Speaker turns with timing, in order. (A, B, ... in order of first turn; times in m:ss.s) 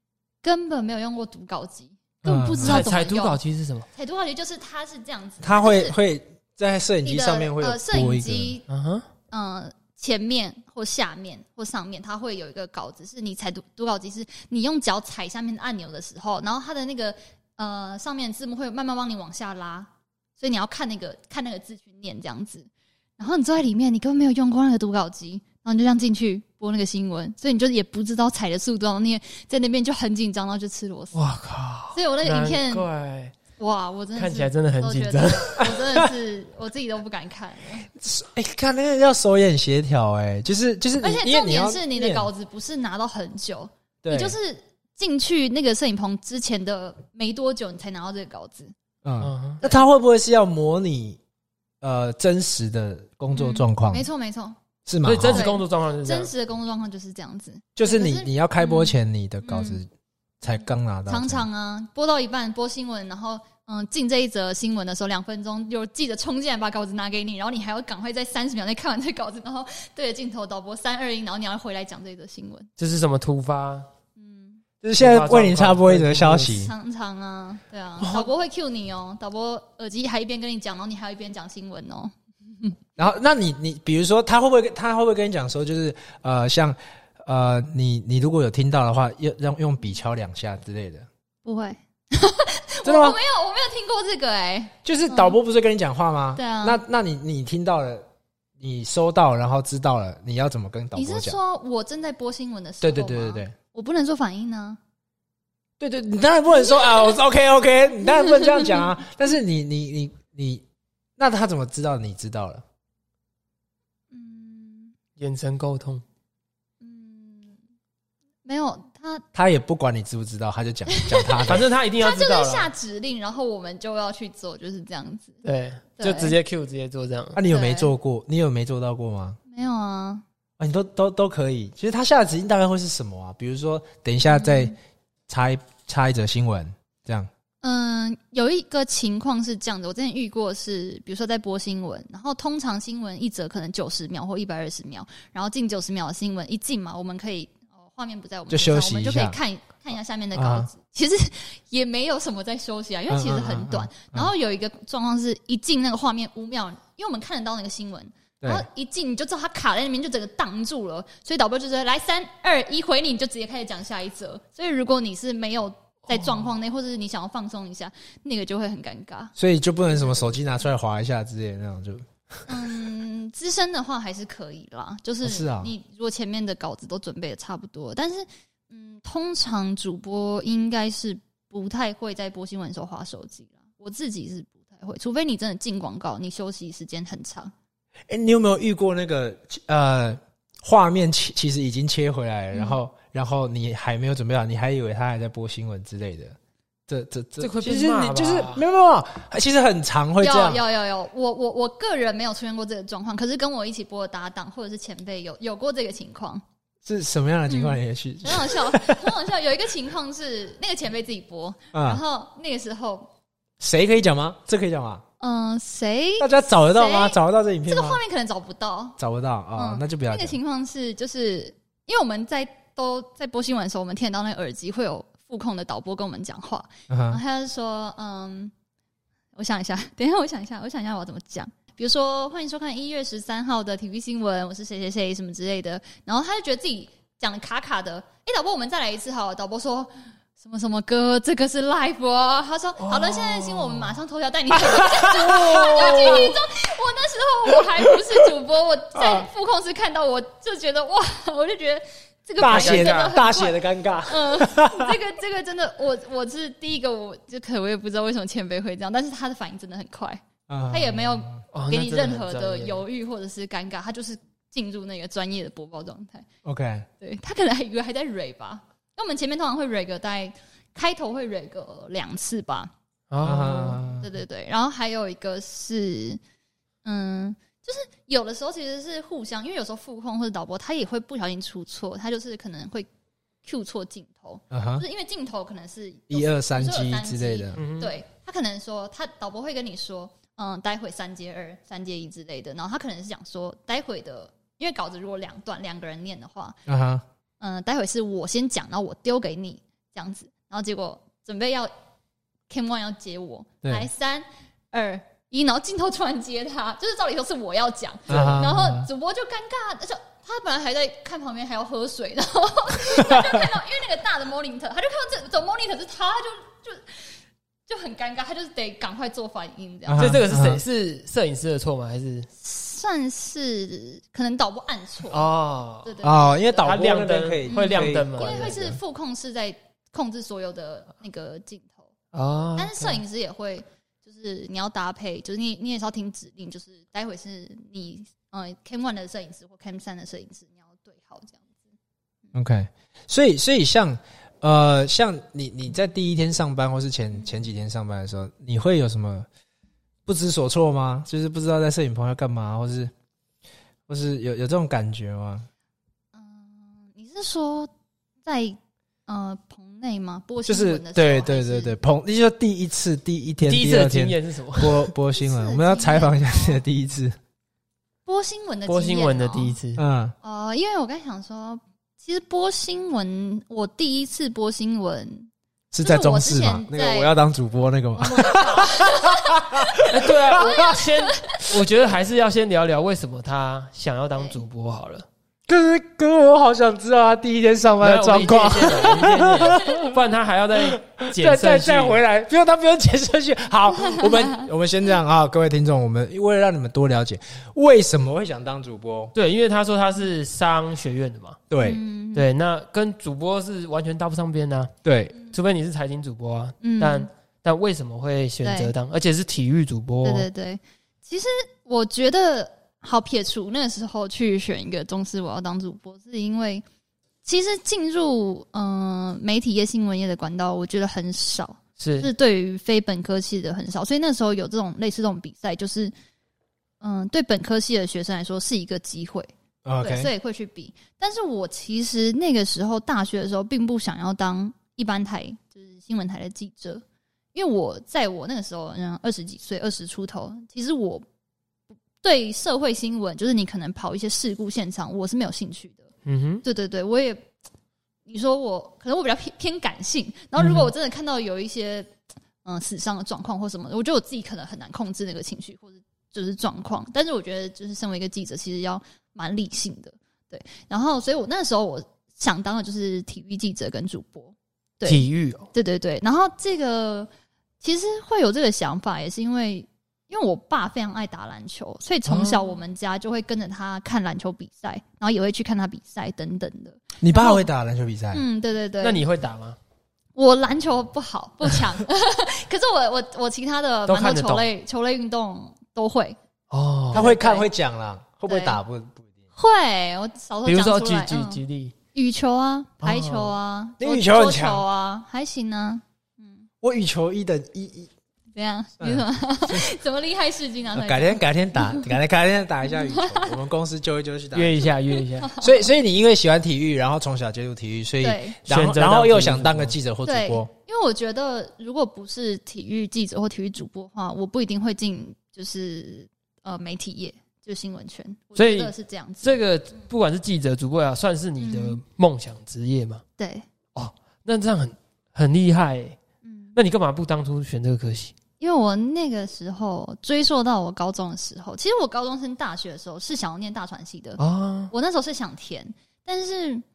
0:00.4-0:03.4 A
0:02.2-0:02.8 B
0:02.6-0:03.9 C
0:03.9-0:06.0 A
0:05.4-0:08.6 B
0:07.0-0:08.6 A
0:08.7-0:09.1 C
0:09.3-0:31.2 A
0:31.1-0:33.3 C
0:31.9-0:32.9 A
0:33.6-0:37.9 A
0:34.2-0:35.7 C
0:38.0-0:42.3 B
0:41.0-0:48.7 A
0:44.0-0:44.4 B
0:49.0-0:51.2 B
0:49.2-0:49.6 C
0:51.8-0:54.1 B
0:53.3-0:54.6 A
0:54.9-0:55.5 B
0:55.0-0:56.3 C
0:55.2-0:59.8 A
0:57.8-0:59.9 B
1:00.4-1:01.4 B
1:01.1-1:12.7 A
1:12.8-1:13.9 C
1:14.2-1:14.6 A
1:14.8-1:16.7 B
1:15.0-1:16.6 C
1:16.5-1:22.8 A
1:18.0-1:18.3 B
1:23.0-1:31.1 B
1:31.4-1:35.4 A
1:32.8-1:33.2 B
1:34.8-1:38.0 B
1:36.4-1:36.8 A
1:38.6-1:41.4 B
1:41.0-1:44.8 A
1:42.8-1:43.5 B
1:45.8-1:50.6 B
1:46.7-1:47.2 A
1:48.2-1:48.8 A
1:51.2-1:52.6 B
1:54.1-1:54.9 A
1:55.2-1:56.0 C
1:56.8-1:57.6 A
1:58.4-1:59.2 A
1:59.3-2:01.7 B
2:00.9-2:05.4 A
2:01.4-2:02.7 C
2:05.4-2:07.4 C
2:06.0-2:06.4 A
2:07.4-2:09.4 B
2:07.5-2:07.9 A
2:09.5-2:10.2 A
2:10.6-2:14.7 B
2:14.3-2:14.7 A
2:15.3-2:17.3 B
2:17.6-2:49.3 A
2:28.5-2:29.4 B
2:30.4-2:30.7 B
2:33.1-2:34.3 B
2:38.4-2:38.7 B
2:49.4-2:52.1 B
2:49.9-2:50.3 A
2:52.5-3:07.5 A
2:55.2-2:55.7 B
3:08.1-3:16.4 B
3:12.5-3:12.8 A
3:16.9-3:20.6 B
3:17.4-3:18.6 C
3:20.2-3:26.4 A
3:26.8-3:29.2 B
3:27.5-3:33.1 A
3:31.7-3:32.0 B
3:33.6-3:35.0 B
3:35.2-3:39.0 A
3:36.2-3:38.0 B
3:39.0-3:40.4 B
3:39.6-3:48.5 A
3:46.9-3:47.2 B
3:49.4-4:26.3 A
4:02.9-4:03.9 C
4:04.6-4:06.4 B
4:09.0-4:09.3 B
4:12.4-4:15.0 B
4:12.4-4:13.2 C
4:20.5-4:21.4 B
4:21.5-4:22.8 C
4:26.4-4:26.9 B
4:27.0-4:32.7 A
4:33.1-4:33.8 C
4:33.2-4:34.1 B
4:34.0-4:36.2 A
4:36.8-4:42.9 A
4:43.4-4:56.6 A
4:44.5-4:44.8 B
4:46.1-4:47.6 B
4:47.6-4:47.9 C
4:56.7-4:57.0 B
4:57.4-5:01.7 A
5:02.5-5:17.0 A
5:08.1-5:08.9 B
5:12.9-5:13.5 B
5:17.7-5:20.1 A
5:19.9-5:20.6 B
5:20.0-5:22.3 C
5:22.4-5:25.3 A
5:25.1-5:25.9 C
5:25.8-5:26.7 A
5:26.0-5:28.8 B
5:26.6-5:28.7 C
5:27.5-5:31.9 A
5:32.1-5:33.0 C
5:32.6-5:41.5 A
5:42.3-5:49.3 B
5:50.1-5:52.9 B
5:53.9-5:55.5 B
5:56.1-5:57.7 A
5:58.2-6:01.8 A
6:00.5-6:07.2 B
6:03.4-6:04.9 C
6:05.2-6:06.6 A
6:08.1-6:09.6 A
6:08.7-6:09.8 C
6:09.8-6:10.2 B
6:10.2-6:15.3 A
6:15.7-6:20.8 B
6:15.8-6:17.1 A
6:18.0-6:19.7 A
6:19.9-6:25.1 C
6:20.4-6:21.5 A
6:25.5-6:30.0 B
6:27.8-6:32.0 C
6:30.6-6:39.1 B
6:39.2-6:41.4 C
6:41.5-6:41.8 B
6:41.6-6:42.3 A
6:42.1-6:50.3 C
6:44.8-6:45.2 B
6:46.6-6:47.1 A
6:48.4-6:48.7 A
6:50.0-6:56.6 A
6:57.2-7:05.9 A
7:01.8-7:02.1 C
7:06.8-7:16.8 A
7:09.6-7:10.1 B
7:17.3-7:21.0 A
7:22.0-7:25.9 A
7:26.0-7:26.4 C
7:26.4-7:27.3 A
7:28.1-7:31.9 A
7:30.4-7:30.7 C
7:32.4-7:47.1 A
7:44.9-7:45.5 C
7:47.6-7:57.5 A
7:52.1-7:52.6 C
7:57.0-7:58.2 B
7:58.1-7:59.0 A
7:58.8-7:59.6 C
8:00.2-8:06.2 A
8:03.9-8:04.5 C
8:06.5-8:07.1 C
8:06.9-8:07.5 A
8:06.9-8:09.1 B
8:08.3-8:08.6 A
8:09.4-8:11.4 A
8:10.5-8:11.7 C
8:11.9-8:16.4 A
8:12.8-8:13.3 C
8:13.8-8:14.6 B
8:16.6-8:17.9 B
8:18.4-8:21.9 A
8:18.8-8:19.7 B
8:20.7-8:24.7 B
8:22.7-8:23.3 A
8:24.3-8:25.3 C
8:25.2-8:25.6 A
8:25.4-8:30.5 B
8:28.0-8:28.4 A
8:28.5-8:29.8 C
8:30.0-8:39.4 A
8:38.4-8:43.0 C
8:41.4-8:41.8 A
8:43.2-8:43.4 A
8:43.8-8:46.0 C
8:46.2-8:46.6 A
8:46.6-8:48.1 C
8:48.4-8:56.6 A
8:54.2-8:54.7 C